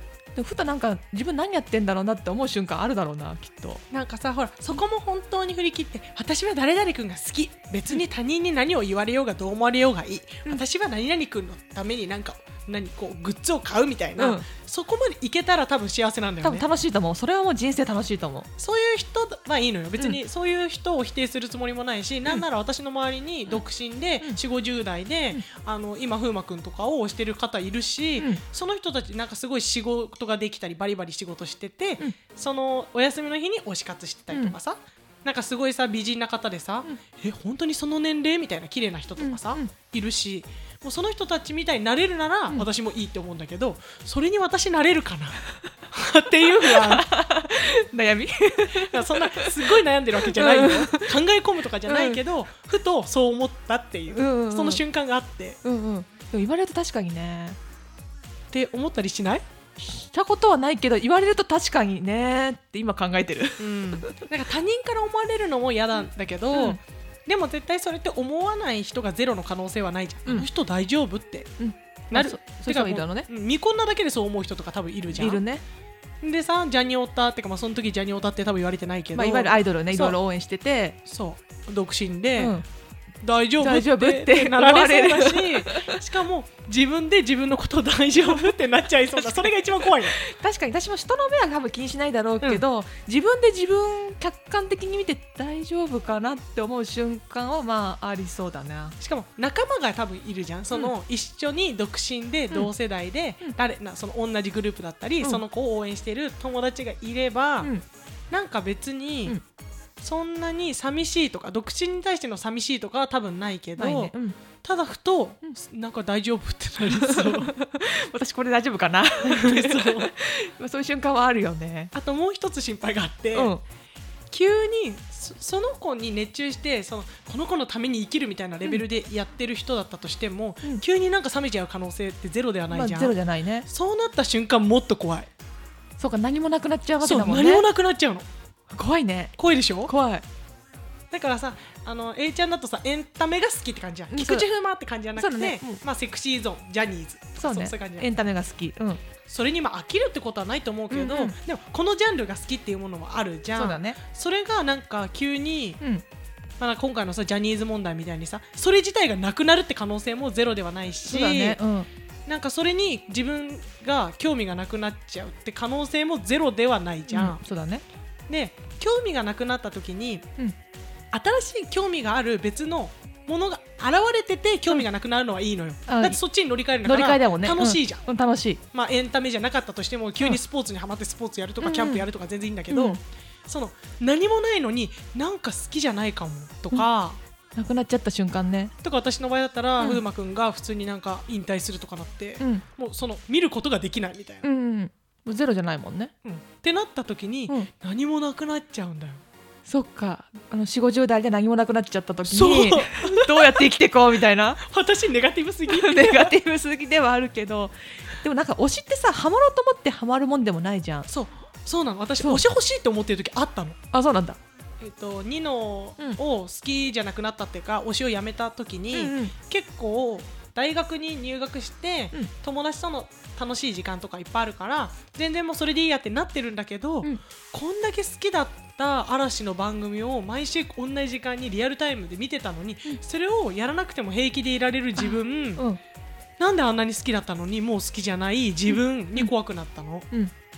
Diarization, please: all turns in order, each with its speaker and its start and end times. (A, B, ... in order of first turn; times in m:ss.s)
0:00.3-0:03.8 A
0:03.9-0:16.6 B
0:14.2-0:14.5 A
0:16.4-0:18.5 A
0:18.6-0:47.0 B
0:39.2-0:39.7 A
0:46.6-0:49.8 A
0:48.8-0:55.6 B
0:50.3-0:51.1 A
0:51.8-0:52.2 A
0:54.1-0:54.8 A
0:55.6-0:57.6 A
0:58.5-0:59.4 B
0:59.8-1:04.2 A
1:03.6-1:11.5 B
1:06.5-1:06.8 A
1:11.6-1:13.3 A
1:12.1-1:15.4 B
1:15.1-1:15.6 A
1:16.2-1:20.2 B
1:19.1-1:21.0 A
1:21.0-1:22.6 B
1:22.4-1:22.6 A
1:23.2-1:30.2 B
1:23.6-1:26.0 A
1:30.2-1:39.0 A
1:39.0-1:47.7 B
1:48.3-1:49.4 B
1:50.0-1:57.5 B
1:53.8-1:54.4 A
1:56.9-2:01.9 A
1:59.2-2:00.1 B
2:01.9-2:03.5 B
2:03.3-2:03.6 A
2:04.3-2:15.3 B
2:12.7-2:13.7 A
2:16.0-2:17.6 A
2:17.0-2:18.3 B
2:18.7-2:20.2 A
2:19.4-2:19.9 B
2:21.1-2:28.1 B
2:24.1-2:24.4 A
2:25.2-2:25.8 A
2:27.4-2:29.0 A
2:29.2-2:35.8 B
2:30.9-2:31.3 A
2:33.5-2:34.0 A
2:36.6-2:41.6 B
2:41.1-2:41.9 A
2:42.2-2:47.4 B
2:47.1-2:47.8 A
2:48.3-2:50.3 B
2:51.1-2:58.0 B
2:55.9-2:56.2 A
2:56.8-2:58.6 A
2:58.7-3:07.2 B
3:01.6-3:02.0 A
3:02.7-3:03.0 A
3:07.6-3:08.7 A
3:08.8-3:14.4 B
3:14.4-3:16.1 A
3:16.2-3:19.2 B
3:19.7-3:24.6 A
3:22.3-3:23.6 B
3:24.6-3:26.3 B
3:25.7-3:31.1 A
3:31.1-3:33.8 B
3:33.9-3:34.4 A
3:34.8-3:55.6 B
3:38.9-3:39.3 A
3:55.0-3:55.8 A
3:56.4-4:00.1 B
3:58.7-3:59.3 A